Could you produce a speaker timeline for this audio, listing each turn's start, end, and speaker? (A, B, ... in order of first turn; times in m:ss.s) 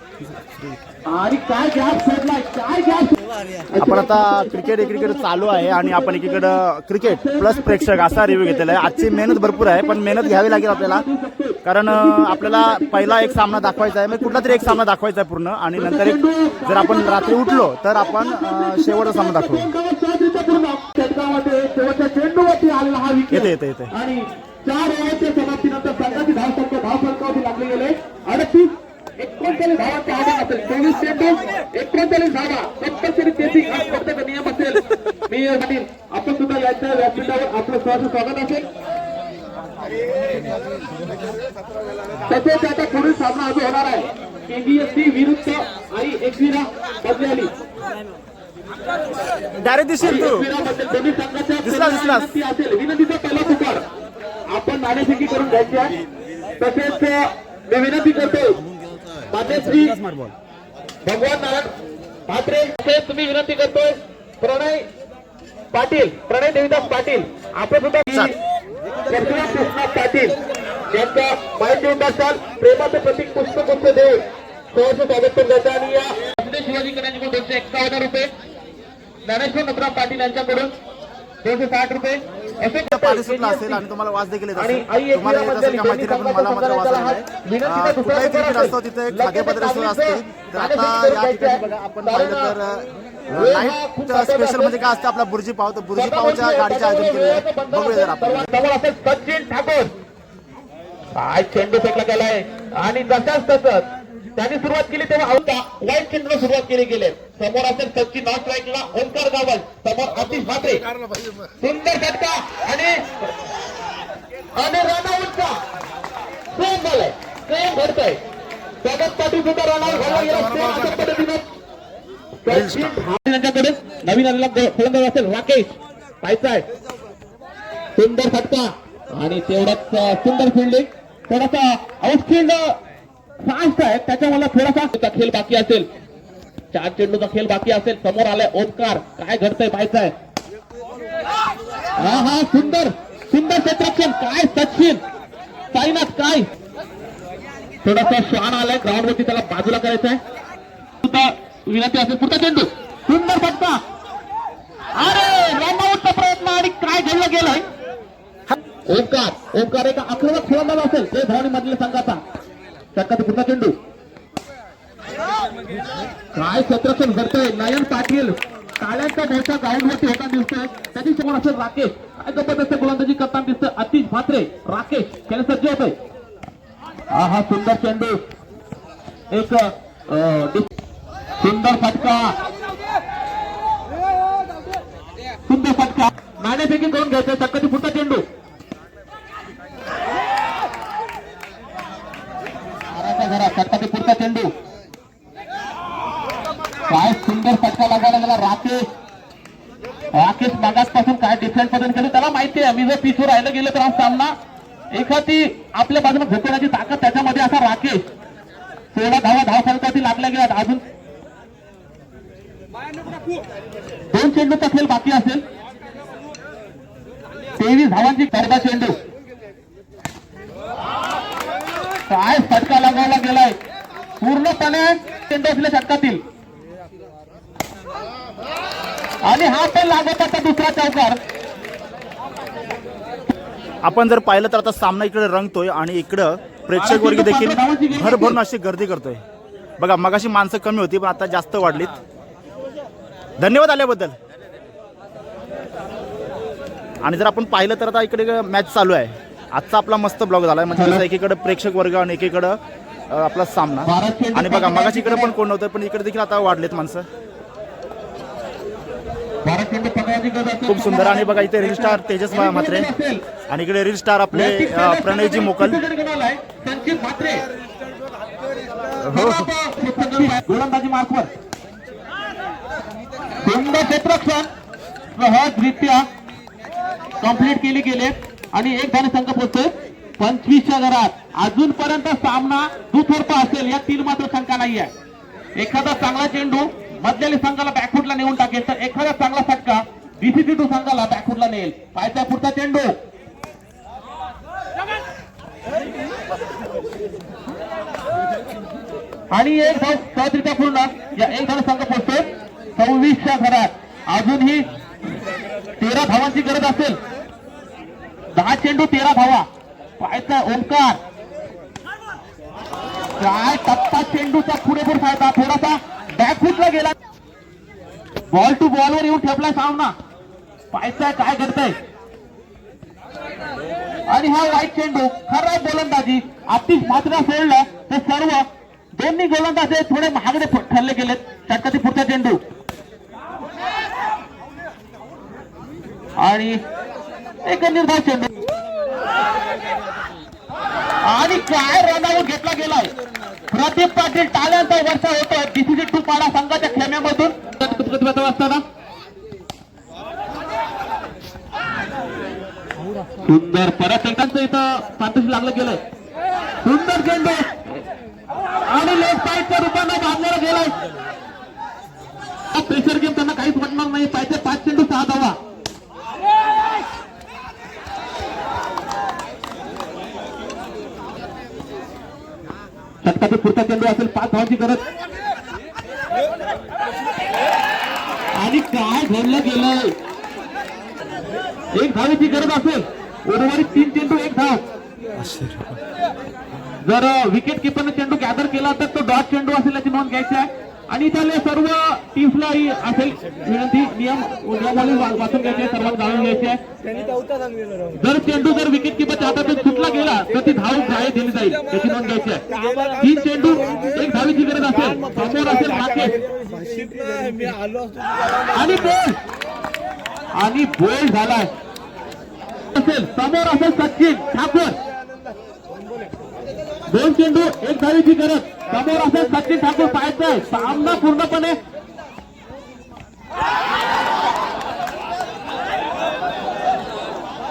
0:01.1-0:03.2 A
0:03.7-0:14.8 A
0:03.8-0:11.0 B
0:11.6-0:19.7 B
0:15.8-0:38.7 A
0:23.3-0:23.9 B
0:42.3-0:47.5 A
0:49.6-0:50.5 B
0:50.0-0:53.8 A
0:51.6-0:52.3 B
0:54.5-0:55.9 A
0:56.6-0:58.6 A
0:59.3-1:00.0 A
1:01.0-1:01.7 A
1:02.3-1:04.9 A
1:05.7-1:08.4 A
1:09.1-1:10.4 A
1:10.9-1:18.3 A
1:19.3-1:20.8 A
1:21.4-1:23.8 A
1:22.9-1:38.5 B
1:24.6-1:32.5 A
1:33.3-1:34.7 A
1:36.0-1:39.9 A
1:41.1-1:50.8 A
1:51.6-1:53.1 A
1:54.6-1:55.6 A
1:56.5-1:58.2 A
1:58.8-2:01.4 A
2:00.0-2:01.0 B
2:02.4-2:06.6 A
2:02.5-2:03.0 B
2:08.0-2:12.8 A
2:13.4-2:15.9 A
2:16.7-2:20.1 A
2:22.0-2:25.0 A
2:25.7-2:26.5 A
2:27.8-2:30.2 A
2:31.0-2:33.8 A
2:35.0-2:37.6 A
2:38.9-2:42.2 A
2:43.0-2:43.8 A
2:46.3-2:56.0 A
2:57.1-2:58.2 A
2:59.3-3:00.7 A
3:01.4-3:02.4 A
3:05.5-3:08.2 A
3:12.9-3:14.5 A
3:16.9-3:18.9 A
3:20.1-3:24.4 A
3:24.9-3:28.1 A
3:28.9-3:30.8 A
3:34.1-3:35.4 A
3:37.6-3:39.0 A
3:42.1-3:43.6 A
3:44.2-3:46.2 A
3:49.2-3:51.2 A
3:53.8-3:59.2 B
3:56.8-3:58.4 A
3:59.8-4:02.0 B
4:03.4-4:04.1 B
4:07.0-4:12.6 B
4:10.7-4:11.0 A
4:13.1-4:17.1 B
4:13.8-4:15.3 A
4:19.4-4:23.2 A
4:20.7-4:22.9 B
4:23.5-4:25.8 B
4:24.3-4:27.4 A
4:29.0-4:29.5 B
4:29.1-4:31.3 A
4:33.4-4:34.5 A
4:35.2-4:36.1 A
4:37.2-4:44.9 A
4:45.6-4:53.0 A
4:59.3-5:04.7 A
5:05.8-5:07.0 A
5:08.3-5:09.5 A
5:10.0-5:11.0 A
5:13.2-5:17.0 A
5:18.3-5:20.0 A
5:20.7-5:21.8 A
5:24.1-5:32.4 A
5:36.2-5:36.6 A
5:37.4-5:38.3 A
5:41.0-5:42.9 A
5:43.5-5:48.6 A
5:53.2-5:55.8 A
5:56.6-5:57.8 A
5:58.7-6:00.8 A
6:02.5-6:05.4 A
6:13.0-6:14.8 A
6:18.4-6:19.9 A
6:21.8-6:24.6 A
6:25.2-6:25.8 B
6:26.8-6:36.6 A
6:38.0-6:46.2 A
6:48.5-6:49.2 A
6:50.3-6:51.5 A
6:52.7-6:54.8 A
6:56.9-7:01.6 A